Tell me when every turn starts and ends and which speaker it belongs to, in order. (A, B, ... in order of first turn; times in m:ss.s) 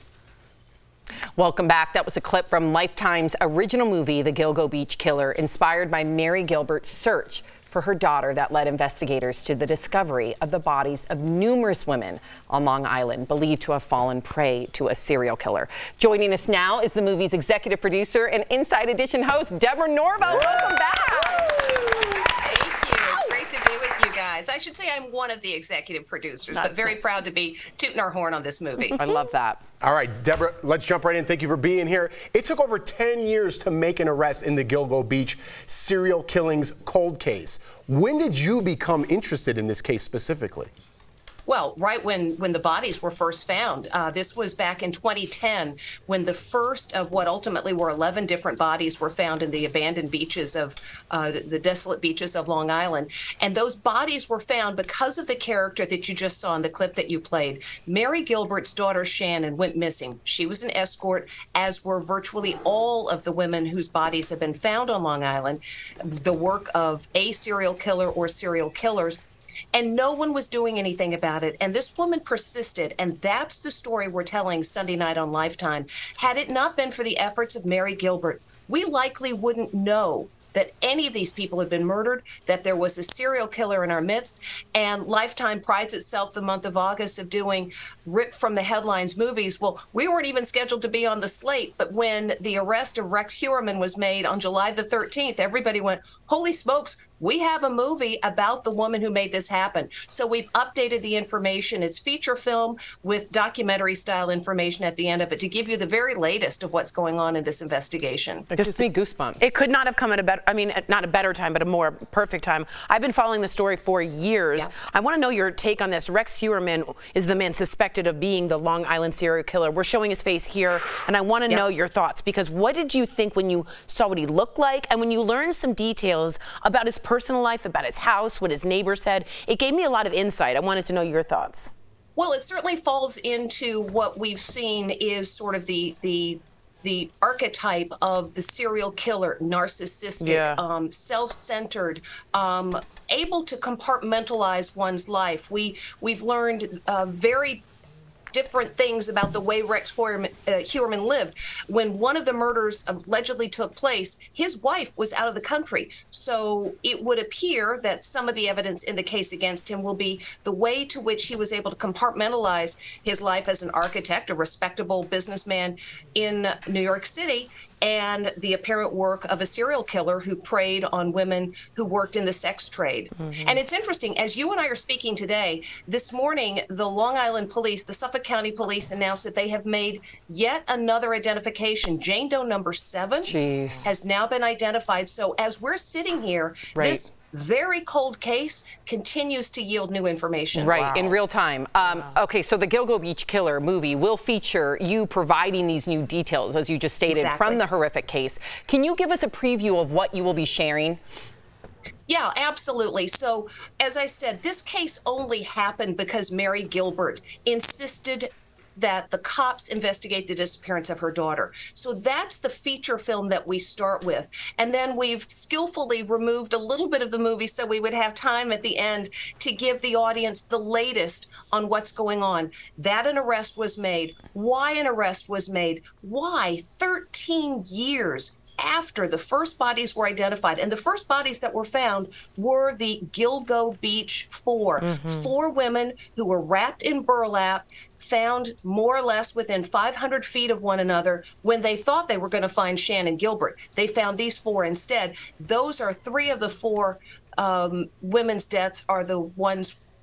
0:01.4-0:21.6 A
0:22.1-0:29.0 B
0:26.6-0:27.0 C
0:28.9-0:29.6 A
0:29.8-0:40.7 D
0:41.5-1:09.2 B
1:09.7-1:48.5 B
1:48.5-1:49.4 A
1:49.4-2:11.7 C
2:12.2-2:27.7 B
2:20.2-2:20.6 C
2:28.3-3:03.3 B
3:03.2-3:03.9 A
3:03.8-3:10.8 B
3:06.7-3:07.0 A
3:10.6-3:21.0 A
3:10.8-3:11.2 C
3:17.1-3:17.6 B
3:22.1-4:09.8 B
3:54.8-3:55.3 C